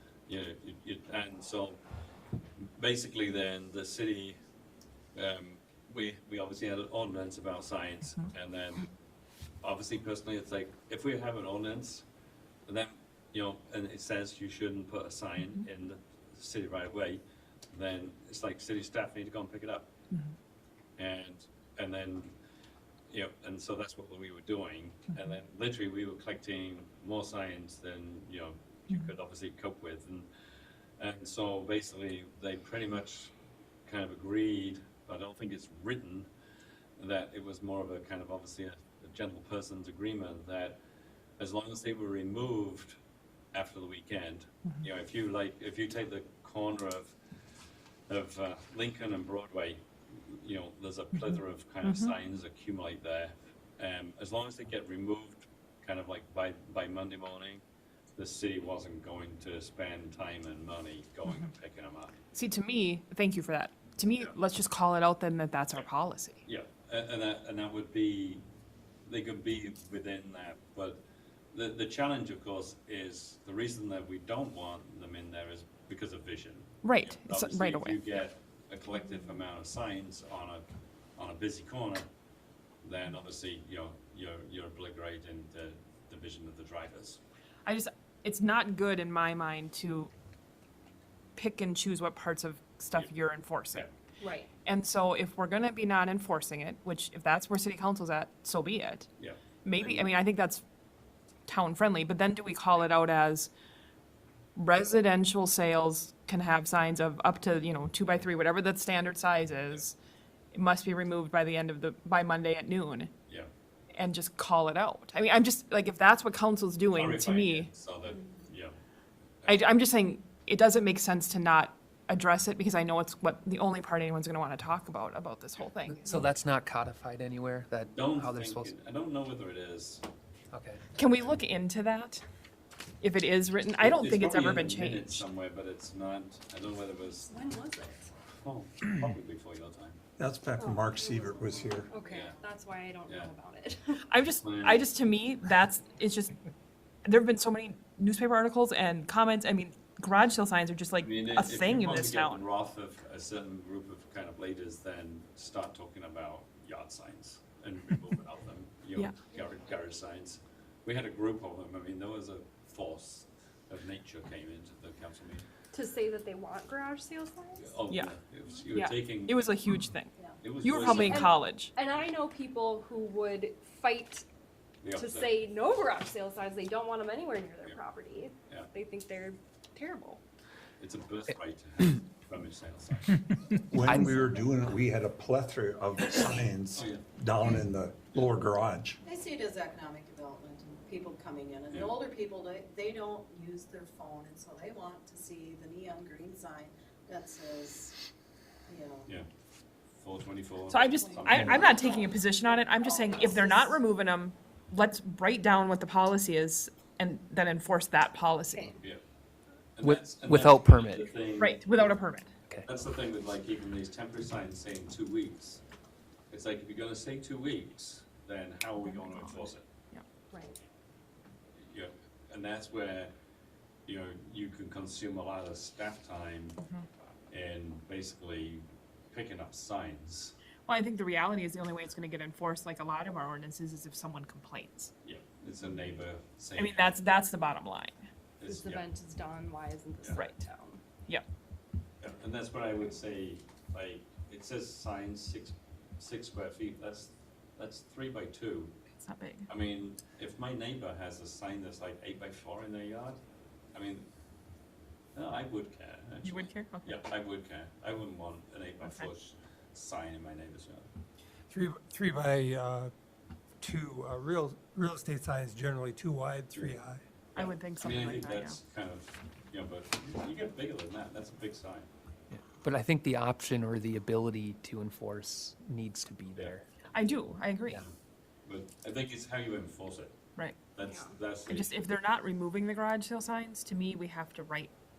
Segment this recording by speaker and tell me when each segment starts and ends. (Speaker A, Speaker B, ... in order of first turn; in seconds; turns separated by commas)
Speaker A: 0.3-1.8, Speaker A: 2.8-4.4, Speaker A: 5.1-8.9, Speaker A: 9.6-12.0, Speaker A: 12.7-19.9, Speaker A: 21.0-22.3, Speaker A: 23.1-30.3, Speaker A: 31.0-33.3, Speaker A: 33.9-36.3, Speaker A: 37.0-40.8, Speaker A: 41.4-43.0, Speaker A: 43.5-47.2, Speaker A: 48.1-57.6, Speaker B: 51.9-52.1, Speaker A: 58.2-62.2, Speaker B: 62.3-66.4, Speaker A: 66.4-68.4, Speaker A: 69.0-82.1, Speaker B: 76.8-78.0, Speaker A: 82.8-87.2, Speaker B: 87.6-90.1, Speaker B: 91.3-93.9, Speaker C: 94.2-94.5, Speaker B: 94.6-99.1, Speaker A: 99.2-100.1, Speaker B: 99.6-100.6, Speaker B: 101.5-103.5, Speaker B: 104.5-109.9, Speaker B: 110.5-113.1, Speaker B: 113.9-117.7, Speaker A: 116.9-118.8, Speaker A: 119.4-119.7, Speaker B: 119.5-126.3, Speaker D: 125.9-128.7, Speaker A: 127.9-130.0, Speaker D: 130.5-130.8, Speaker B: 130.9-132.2, Speaker B: 133.0-135.2, Speaker A: 133.8-137.5, Speaker C: 137.3-138.1, Speaker A: 138.3-140.0, Speaker E: 140.2-141.9, Speaker C: 140.6-144.0, Speaker F: 141.1-142.3, Speaker A: 141.9-142.4, Speaker A: 143.1-143.3, Speaker B: 144.1-146.4, Speaker A: 144.4-144.9, Speaker B: 147.0-152.4, Speaker A: 151.0-165.5, Speaker C: 165.7-167.8, Speaker A: 167.6-169.5, Speaker B: 168.7-171.7, Speaker A: 170.4-171.3, Speaker C: 170.7-174.2, Speaker A: 174.8-175.4, Speaker C: 174.9-180.2, Speaker A: 180.8-183.6, Speaker E: 183.7-189.0, Speaker D: 183.8-184.5, Speaker A: 186.7-187.1, Speaker A: 188.1-188.4, Speaker F: 189.0-197.9, Speaker A: 191.7-191.9, Speaker F: 198.7-199.1, Speaker A: 199.9-201.8, Speaker B: 200.7-208.7, Speaker F: 200.8-203.8, Speaker A: 209.8-212.0, Speaker D: 209.8-211.1, Speaker B: 211.4-212.3, Speaker A: 212.6-215.6, Speaker A: 216.3-219.7, Speaker B: 218.8-219.2, Speaker C: 220.3-220.6, Speaker A: 221.6-223.1, Speaker A: 223.8-226.6, Speaker B: 226.6-226.8, Speaker A: 227.3-230.3, Speaker B: 230.7-234.9, Speaker A: 235.0-237.0, Speaker B: 236.6-238.0, Speaker A: 238.4-238.9, Speaker C: 238.4-240.8, Speaker B: 240.1-240.4, Speaker A: 242.0-248.7, Speaker B: 249.0-249.5, Speaker A: 249.5-253.2, Speaker A: 253.7-254.1, Speaker A: 255.1-260.9, Speaker B: 256.2-257.0, Speaker B: 258.8-259.1, Speaker G: 261.5-262.9, Speaker G: 263.6-267.0, Speaker A: 266.5-266.8, Speaker A: 267.3-271.9, Speaker B: 267.4-268.6, Speaker D: 272.3-276.6, Speaker B: 276.9-277.8, Speaker A: 277.7-280.1, Speaker A: 280.7-281.7, Speaker C: 280.8-281.1, Speaker B: 281.5-284.7